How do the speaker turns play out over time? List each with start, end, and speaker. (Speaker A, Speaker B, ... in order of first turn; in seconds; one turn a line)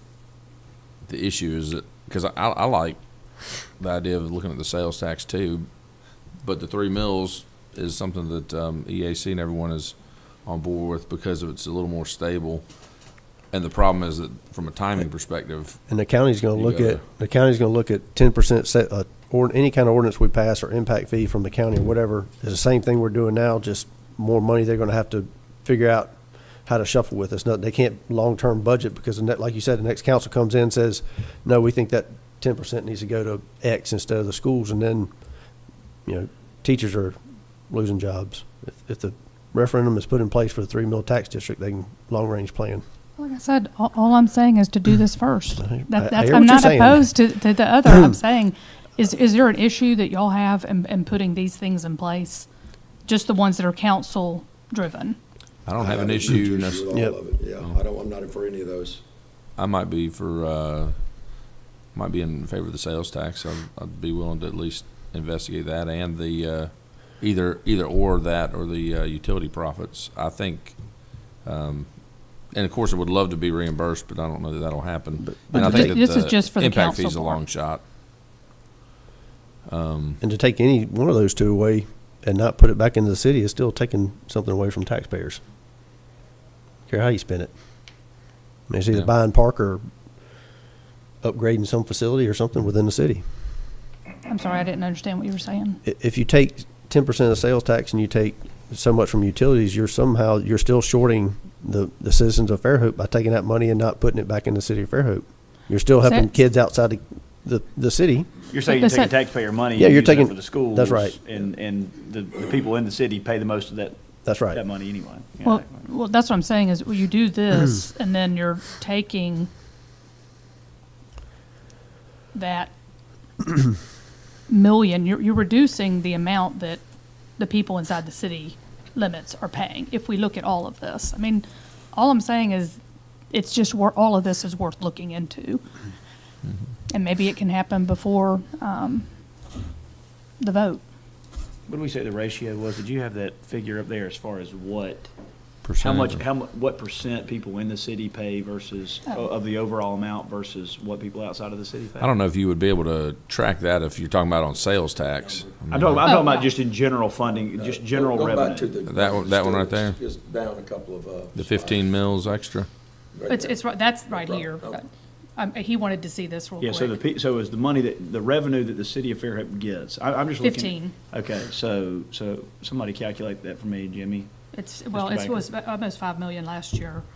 Speaker A: 1.1-5.7
Speaker A: 6.2-12.9
Speaker A: 13.5-15.8
Speaker B: 15.9-26.1
Speaker A: 16.6-17.0
Speaker B: 26.7-35.1
Speaker B: 36.1-37.2
Speaker B: 37.7-42.8
Speaker C: 43.2-52.5
Speaker B: 45.6-47.1
Speaker C: 53.0-55.2
Speaker A: 55.7-56.9
Speaker D: 55.8-59.0
Speaker A: 57.5-57.8
Speaker A: 59.6-77.8
Speaker B: 75.3-76.0
Speaker C: 75.5-77.4
Speaker A: 79.7-80.2
Speaker B: 80.2-85.4
Speaker B: 86.9-87.5
Speaker B: 88.7-89.8
Speaker B: 91.2-93.2
Speaker C: 94.2-95.8
Speaker B: 95.8-108.3
Speaker E: 108.5-114.0
Speaker C: 108.7-109.1
Speaker B: 109.8-111.2
Speaker B: 114.2-114.6
Speaker E: 114.5-115.8
Speaker C: 115.4-119.5
Speaker C: 122.3-122.7
Speaker C: 124.5-126.8
Speaker C: 127.4-132.8
Speaker C: 133.3-135.7
Speaker C: 136.9-139.1
Speaker C: 140.4-140.8
Speaker E: 141.7-145.1
Speaker A: 145.6-146.2
Speaker E: 145.8-152.1
Speaker A: 152.0-156.1
Speaker E: 155.7-158.8
Speaker C: 156.1-156.5
Speaker D: 157.5-161.9
Speaker A: 158.8-160.0
Speaker A: 161.3-162.7
Speaker D: 163.1-164.8
Speaker C: 163.3-167.0
Speaker E: 166.6-174.3
Speaker C: 170.4-171.0
Speaker C: 174.5-177.1
Speaker E: 174.9-175.5